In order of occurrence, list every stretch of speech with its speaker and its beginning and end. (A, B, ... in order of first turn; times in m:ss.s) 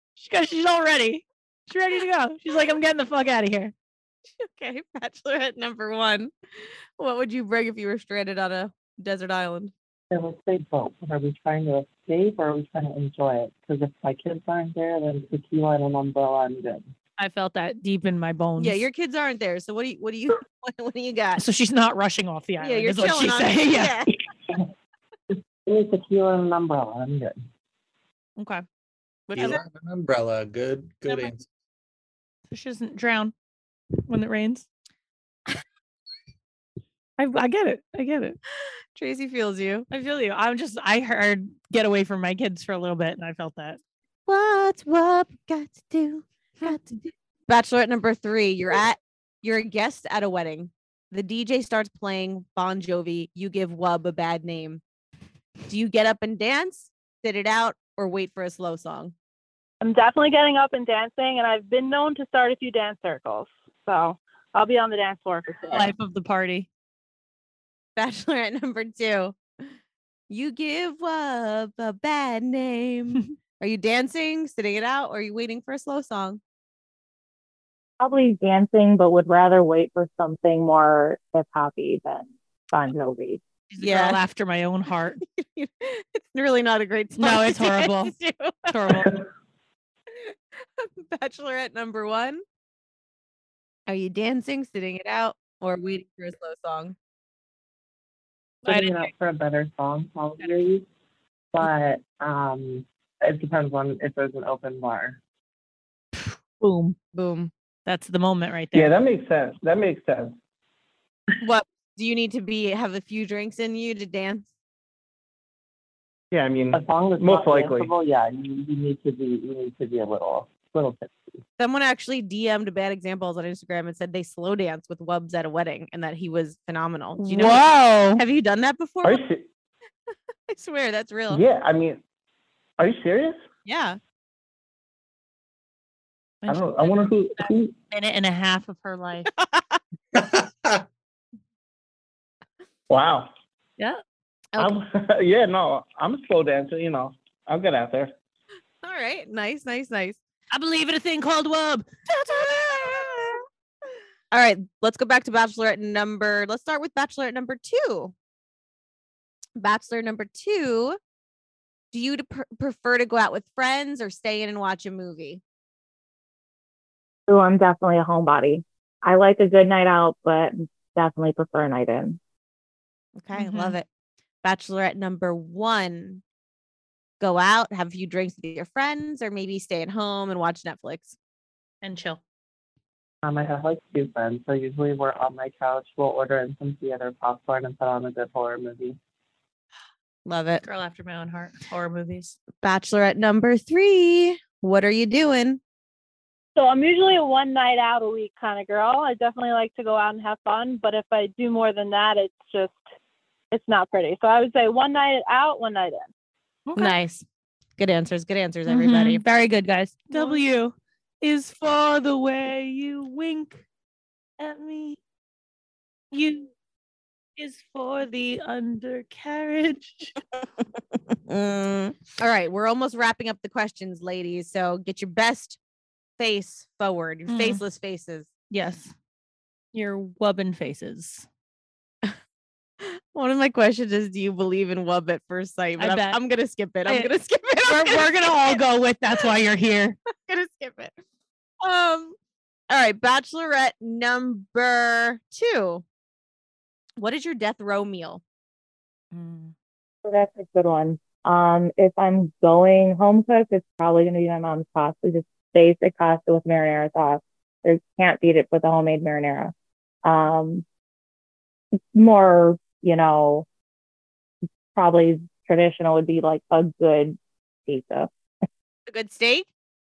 0:00.2-0:03.7 A
0:04.4-0:06.3 B
0:07.0-0:09.7 B
0:10.1-0:16.9 C
0:17.2-0:18.8 A
0:18.6-0:21.4 B
0:21.4-0:24.0 A
0:22.6-0:24.1 B
0:25.6-0:27.4 C
0:28.4-0:28.6 A
0:29.3-0:29.6 A
0:29.3-0:31.4 D
0:32.5-0:33.3 A
0:34.0-0:34.6 A
0:37.2-0:38.4 A
0:38.9-0:39.9 B
0:39.9-0:43.8 A
0:44.3-0:54.8 B
0:55.7-0:59.1 B
0:59.8-1:05.9 E
1:05.7-1:06.7 A
1:08.0-1:09.7 B
1:10.3-1:16.4 B
1:18.0-1:23.4 F
1:23.7-1:25.2 A
1:23.8-1:24.2 B
1:25.2-1:28.8 B
1:27.2-1:28.1 A
1:28.7-1:29.2 A
1:30.2-1:32.4 B
1:33.9-1:36.9 B
1:38.6-1:40.8 C
1:38.6-1:39.1 A
1:41.5-1:45.2 C
1:46.1-1:47.0 A
1:47.1-1:47.5 B
1:47.8-1:48.9 A
1:48.7-1:50.3 G
1:51.4-1:54.5 B
1:56.3-1:57.9 G
1:56.7-2:01.4 C
2:01.6-2:09.2 B
2:07.2-2:08.2 A
2:09.0-2:09.5 G
2:10.5-2:11.4 B
2:11.3-2:12.0 G
2:12.8-2:13.4 G
2:13.6-2:14.0 B
2:16.4-2:19.3 A
2:16.5-2:17.7 G
2:19.3-2:19.8 B
2:20.1-2:20.8 D
2:22.9-2:23.3 G
2:24.6-2:28.1 G
2:28.8-2:30.2 B
2:30.5-2:33.4 A
2:32.1-2:33.4 B
2:34.3-2:38.1 B
2:39.6-2:41.0 B
2:41.9-2:45.4 B
2:47.3-2:52.2 F
2:53.2-2:53.8 B
2:53.3-2:53.8 A
2:54.4-2:56.2 B
2:57.2-3:01.2 B
3:01.8-3:02.2 A
3:03.2-3:09.0 C
3:10.2-3:10.6 B
3:10.6-3:12.4 A
3:12.6-3:15.6 B
3:16.5-3:22.8 E
3:23.5-3:26.1 E
3:26.6-3:27.0 A
3:26.8-3:27.2 B
3:27.8-3:29.2 B
3:28.7-3:33.6 A
3:30.1-3:30.4 E
3:34.4-3:35.0 A
3:36.1-3:36.5 A
3:37.4-3:40.1 A
3:41.3-3:45.6 B
3:46.2-3:48.3 B
3:47.3-3:47.6 A
3:48.5-3:48.9 A
3:49.7-3:51.3 A
3:52.8-3:58.6 B
3:55.8-3:56.2 A
3:56.8-3:57.1 A
3:57.6-4:00.0 A
4:00.1-4:00.9 B
4:01.6-4:02.2 B
4:02.7-4:05.8 B
4:07.0-4:08.2 B
4:09.1-4:09.5 A
4:10.0-4:19.5 F
4:20.0-4:20.6 F
4:21.9-4:23.4 F
4:24.7-4:28.1 F
4:28.9-4:29.5 B